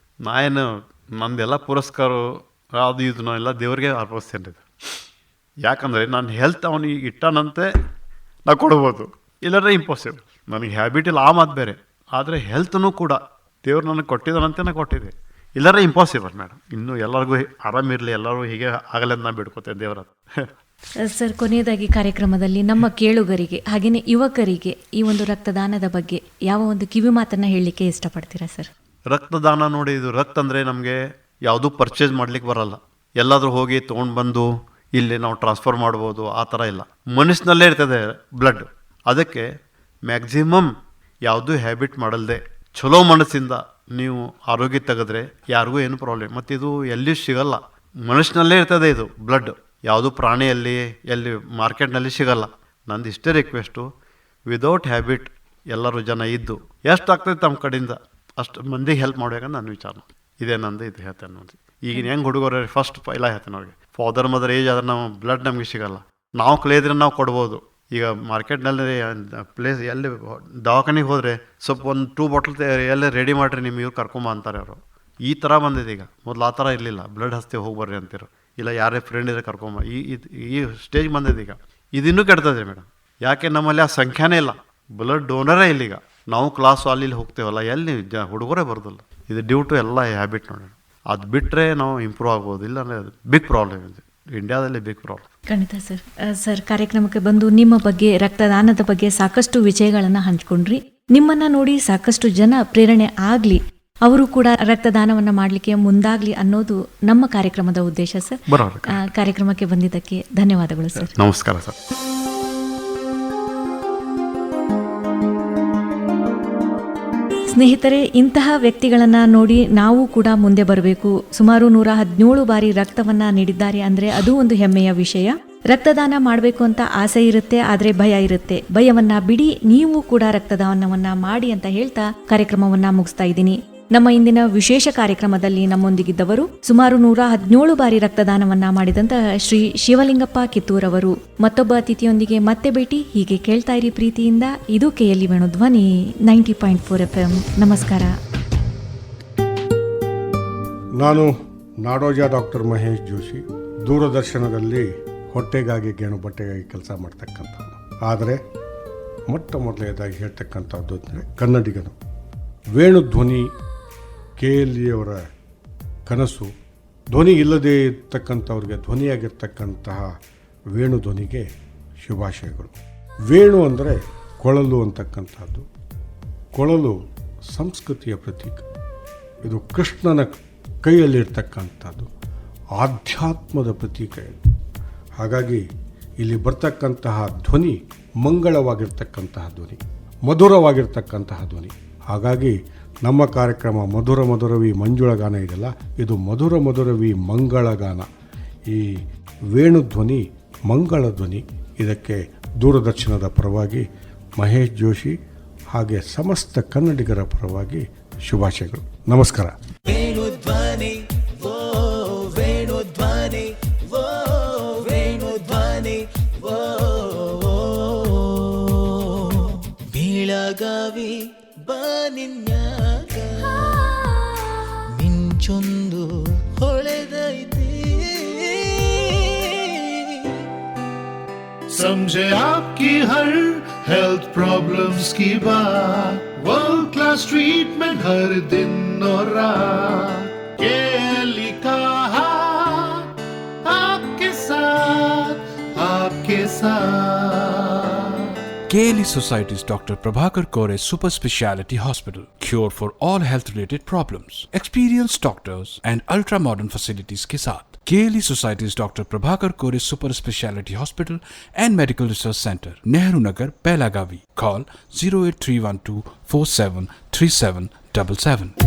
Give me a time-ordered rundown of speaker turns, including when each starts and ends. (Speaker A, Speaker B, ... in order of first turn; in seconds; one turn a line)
Speaker A: 0.2-4.7
Speaker A: 5.6-7.7
Speaker A: 8.5-20.5
Speaker B: 21.0-28.7
Speaker A: 29.1-39.5
Speaker A: 40.0-40.7
Speaker A: 41.2-53.9
Speaker A: 54.5-95.3
Speaker B: 95.5-111.1
Speaker A: 108.5-109.0
Speaker A: 111.0-111.8
Speaker B: 117.5-148.2
Speaker C: 151.0-158.4
Speaker C: 159.3-161.9
Speaker C: 162.8-163.5
Speaker C: 164.4-165.2
Speaker C: 166.1-166.5
Speaker C: 167.1-170.1
Speaker C: 170.7-171.5
Speaker C: 172.0-172.7
Speaker C: 173.3-175.7
Speaker C: 176.6-177.0
Speaker C: 177.5-178.7
Speaker C: 179.5-182.1
Speaker C: 182.8-184.4
Speaker C: 185.2-185.6
Speaker C: 186.2-198.1
Speaker C: 198.7-199.0
Speaker C: 199.5-203.9
Speaker C: 204.4-205.2
Speaker C: 205.7-209.6
Speaker D: 209.9-230.3
Speaker E: 231.7-243.1
Speaker E: 243.6-248.3
Speaker F: 248.7-268.5